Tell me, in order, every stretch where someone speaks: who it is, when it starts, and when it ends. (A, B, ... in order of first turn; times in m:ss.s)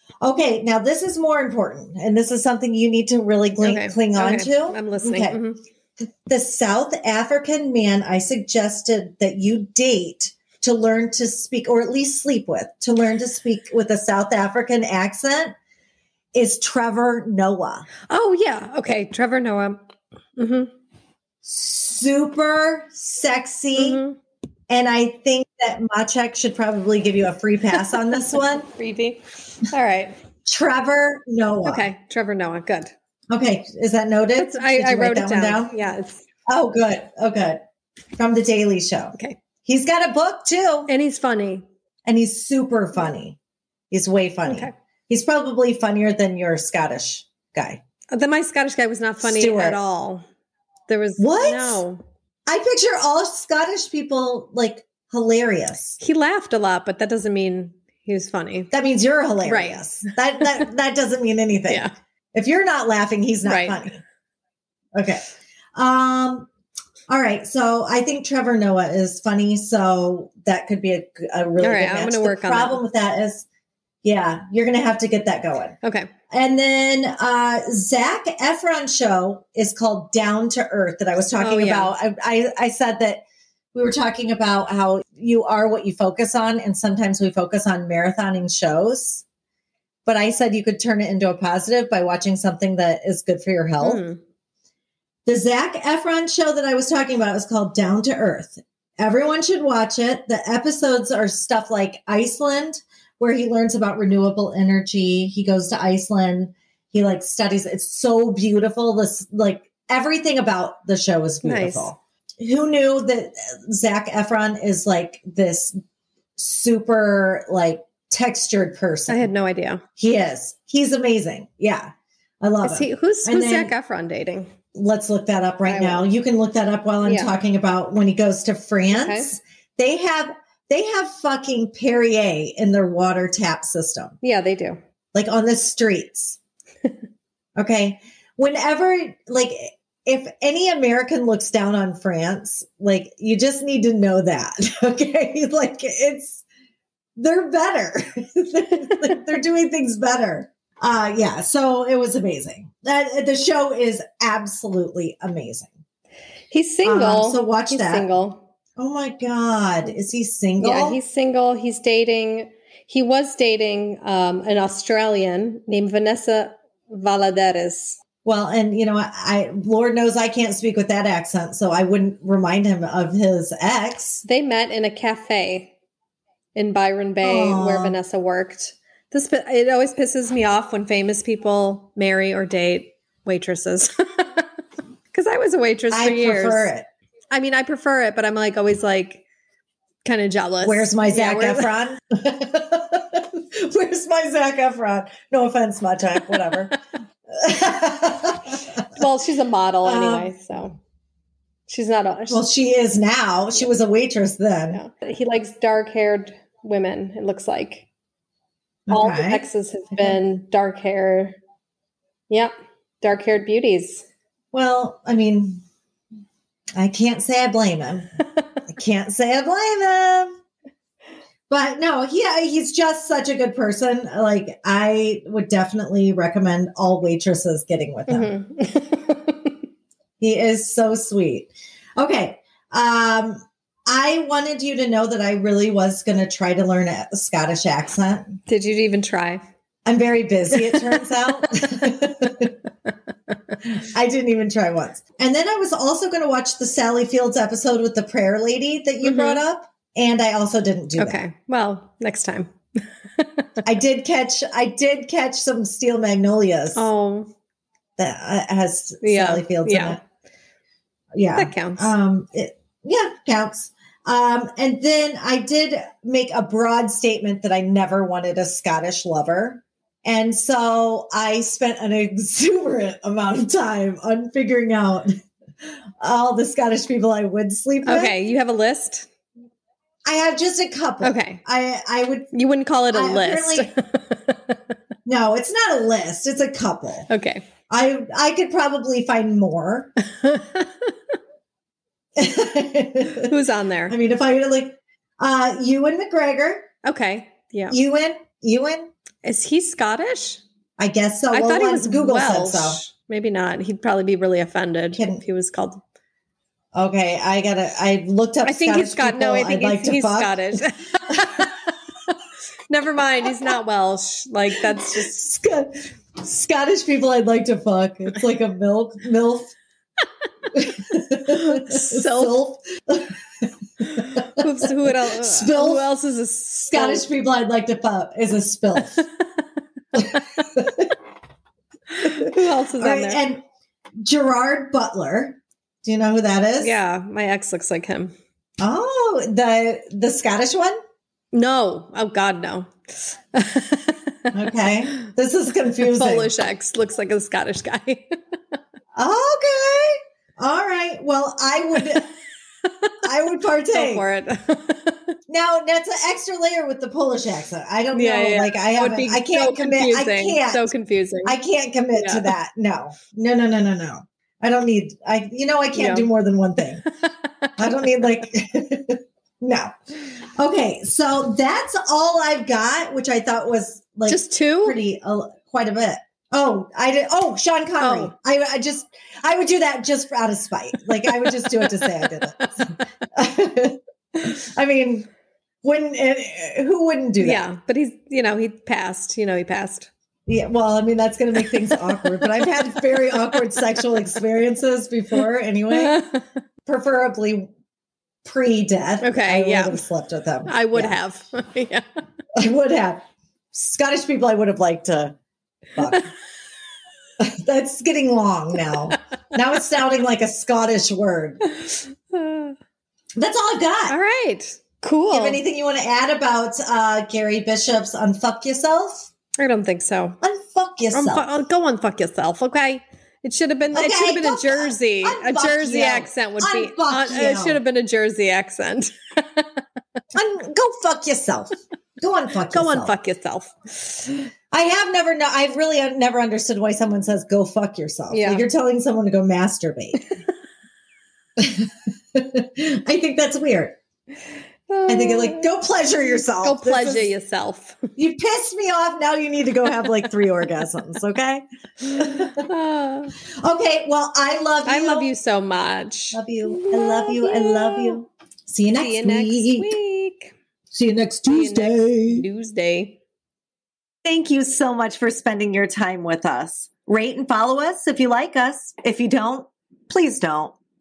0:00.2-0:05.4 A
0:03.6-0:05.6 B
0:06.0-0:15.6 A
0:16.3-0:17.9 A
0:18.1-0:19.8 B
0:20.4-0:20.7 B
0:21.4-0:24.0 A
0:23.8-0:24.2 B
0:24.7-0:28.7 A
0:28.6-0:30.1 B
0:30.4-0:31.9 A
0:31.6-0:32.9 B
0:33.3-0:35.8 A
0:34.4-0:36.2 B
0:36.5-0:37.6 A
0:38.2-0:40.9 A
0:40.9-0:41.6 B
0:42.1-0:43.4 A
0:43.9-0:47.8 A
0:44.4-0:44.7 B
0:48.1-0:50.2 B
0:49.2-0:49.8 A
0:50.9-0:52.0 B
0:51.2-0:51.8 A
0:52.5-0:56.0 A
0:56.0-0:58.7 B
0:58.7-1:04.0 A
0:59.4-1:00.1 B
1:03.4-1:03.8 B
1:04.9-1:06.5 A
1:07.1-1:13.4 A
1:11.6-1:12.8 B
1:14.0-1:15.8 A
1:15.8-1:16.1 B
1:16.3-1:23.2 A
1:21.3-1:21.9 B
1:23.7-1:29.2 A
1:30.1-1:34.0 A
1:33.8-1:34.2 B
1:35.3-1:55.8 A
1:51.4-1:51.9 B
1:56.4-1:59.3 A
1:59.1-1:59.8 B
2:00.0-2:03.7 A
2:02.6-2:04.5 B
2:04.7-2:14.1 A
2:05.6-2:06.1 B
2:07.0-2:07.3 B
2:08.9-2:09.3 B
2:14.2-2:14.8 B
2:15.1-2:16.4 A
2:17.6-2:26.4 A
2:27.2-2:35.7 A
2:36.5-2:38.4 B
2:36.8-2:38.1 A
2:38.8-2:41.0 A
2:40.6-2:48.0 B
2:48.2-2:54.2 A
2:54.2-2:55.7 B
2:56.6-3:04.4 B
2:57.2-2:58.0 A
3:05.1-3:06.7 B
3:05.9-3:06.9 A
3:07.3-3:09.2 B
3:10.0-3:11.7 B
3:10.6-3:16.8 A
3:17.3-3:18.8 A
3:18.9-3:20.8 B
3:19.8-3:20.3 A
3:21.7-3:22.4 B
3:22.3-3:24.8 A
3:24.7-3:27.9 B
3:28.9-3:29.4 A
3:28.9-3:31.4 B
3:32.3-3:34.0 B
3:34.5-3:35.6 A
3:36.8-3:40.4 A
3:41.5-3:48.4 A
3:48.1-3:49.6 B
3:50.2-3:58.4 A
3:58.5-3:59.4 B
3:59.9-4:02.5 A
4:00.5-4:01.0 B
4:03.6-4:11.2 A
4:09.0-4:09.4 B
4:11.0-4:12.5 B
4:13.2-4:13.6 B
4:13.6-4:16.9 A
4:16.8-4:17.3 B
4:18.0-4:20.0 A
4:19.0-4:20.0 B
4:21.1-4:35.2 A
4:21.4-4:21.9 B
4:36.0-4:38.1 A
4:37.8-4:39.1 B
4:40.0-4:42.3 A
4:41.0-4:41.4 B
4:42.3-4:44.4 B
4:42.9-4:43.7 A
4:45.0-4:47.1 A
4:47.1-4:47.4 B
4:47.7-4:49.9 A
4:50.2-4:50.9 B
4:52.2-4:53.3 A
4:53.2-4:53.9 B
4:53.9-4:56.7 A
4:56.8-4:57.8 B
4:57.7-4:58.9 A
4:59.2-5:00.4 B
5:00.8-5:02.8 A
5:01.3-5:05.8 B
5:04.9-5:05.2 A
5:06.8-5:10.6 A
5:08.4-5:11.5 B
5:11.2-5:11.4 A
5:12.7-5:15.1 B
5:14.7-5:19.6 A
5:20.5-5:23.1 A
5:21.3-5:22.4 B
5:23.8-5:25.9 A
5:23.9-5:27.1 B
5:26.7-5:29.0 A
5:29.9-5:30.9 A
5:31.9-5:33.2 B
5:32.8-5:33.4 A
5:34.0-5:36.8 A
5:36.6-5:38.1 B
5:38.6-5:40.8 A
5:41.3-5:42.7 B
5:43.3-5:44.3 B
5:44.3-5:46.3 A
5:45.9-5:48.1 B
5:49.0-5:52.1 A
5:53.0-5:54.0 A
5:53.7-5:55.1 B
5:55.3-6:00.7 A
5:57.9-6:01.4 B
6:01.2-6:06.8 A
6:01.9-6:02.3 B
6:05.8-6:06.1 B
6:06.8-6:07.5 B
6:07.6-6:25.1 A
6:14.1-6:14.8 B
6:17.8-6:18.1 B
6:25.6-6:27.5 A
6:27.2-6:29.9 B
6:30.3-6:36.0 A
6:31.6-6:32.1 B
6:35.7-6:36.2 B
6:36.6-6:37.5 A
6:38.2-6:41.0 A
6:39.0-6:39.8 B
6:40.5-6:41.8 B
6:42.4-6:43.0 A
6:43.5-6:45.2 A
6:45.8-6:46.1 A
6:47.2-6:51.4 A
6:51.6-6:52.5 B
6:53.2-6:54.0 A
6:53.9-6:55.4 B
6:55.1-6:59.1 A
6:59.4-7:00.2 B
7:00.2-7:01.4 A
7:00.9-7:09.6 B
7:03.7-7:07.6 A
7:10.1-7:12.9 A
7:12.5-7:14.1 B
7:14.5-7:20.0 A
7:18.1-7:18.5 B
7:21.4-7:23.8 A
7:24.7-7:25.5 B
7:24.9-7:27.1 A
7:26.4-7:27.9 B
7:28.0-7:32.4 A
7:32.4-7:33.1 B
7:33.4-7:35.1 A
7:34.6-7:38.0 B
7:36.1-7:39.8 A
7:38.7-7:40.3 B
7:40.7-7:42.2 A
7:41.3-7:43.0 B
7:44.0-7:50.5 A